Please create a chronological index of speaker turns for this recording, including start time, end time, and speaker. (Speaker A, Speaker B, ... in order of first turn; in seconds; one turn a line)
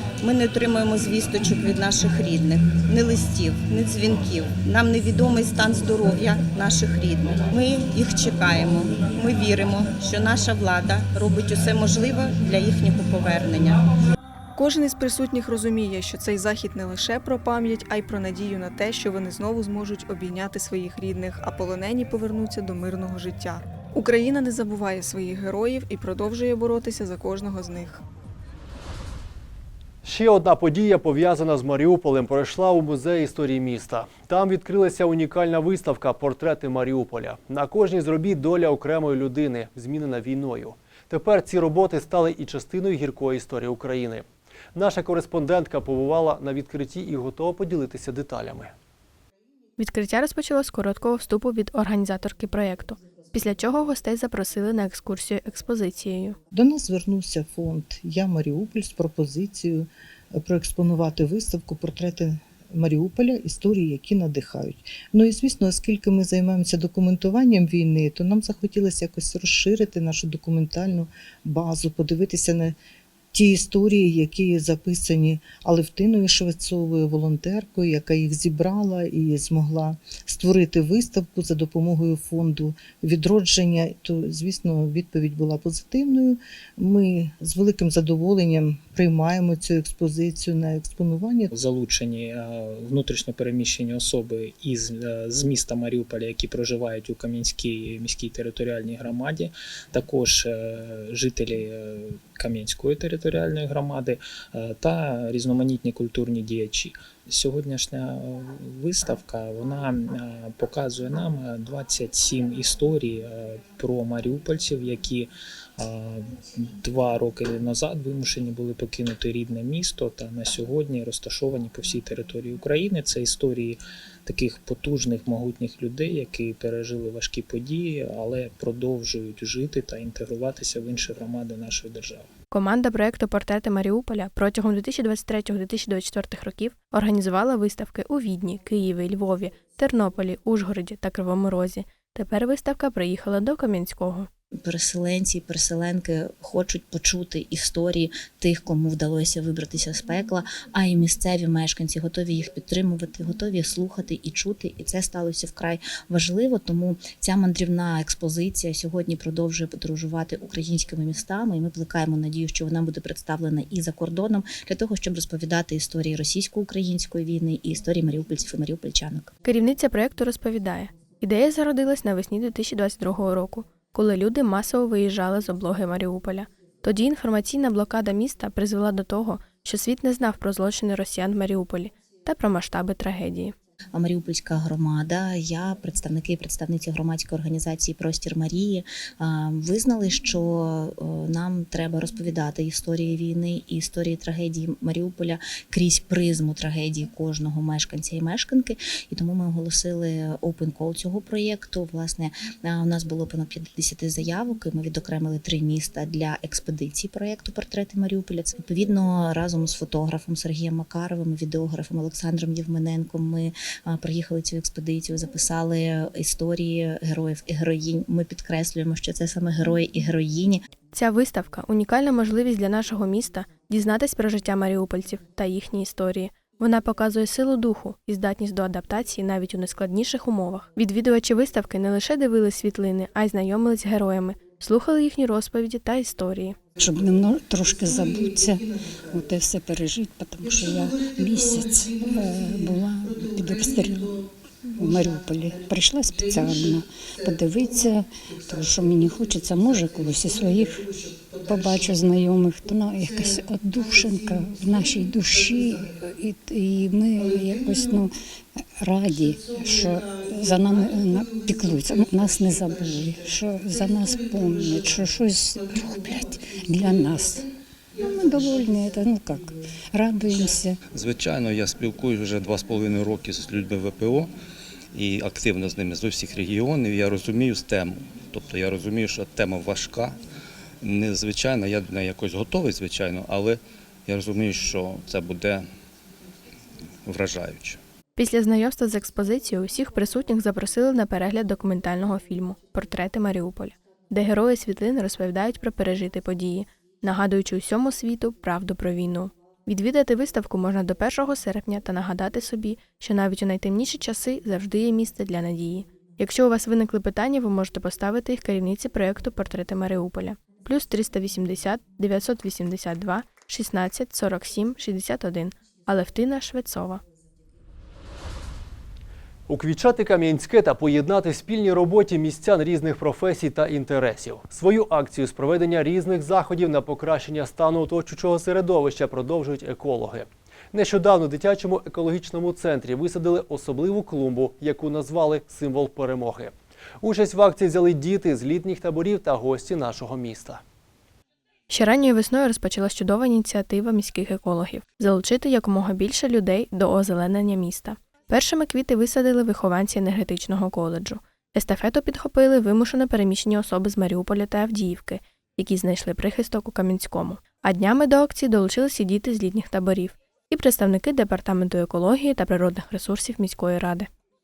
Speaker A: 0.2-13.8
Speaker B: 14.6-28.0
Speaker C: 30.0-48.7
Speaker D: 49.8-56.4
Speaker E: 56.5-72.8
Speaker E: 73.3-91.5
Speaker F: 91.5-132.3
Speaker D: 132.5-144.3
Speaker G: 144.6-169.3
Speaker D: 169.4-183.6
Speaker G: 183.9-220.6
Speaker D: 220.9-236.6
Speaker H: 236.8-258.1
Speaker H: 258.8-267.5
Speaker H: 268.0-270.8
Speaker I: 270.9-274.3
Speaker I: 274.9-280.2
Speaker I: 280.8-285.7
Speaker I: 287.1-287.8
Speaker D: 288.2-317.0
Speaker C: 319.5-340.6
Speaker D: 341.7-364.1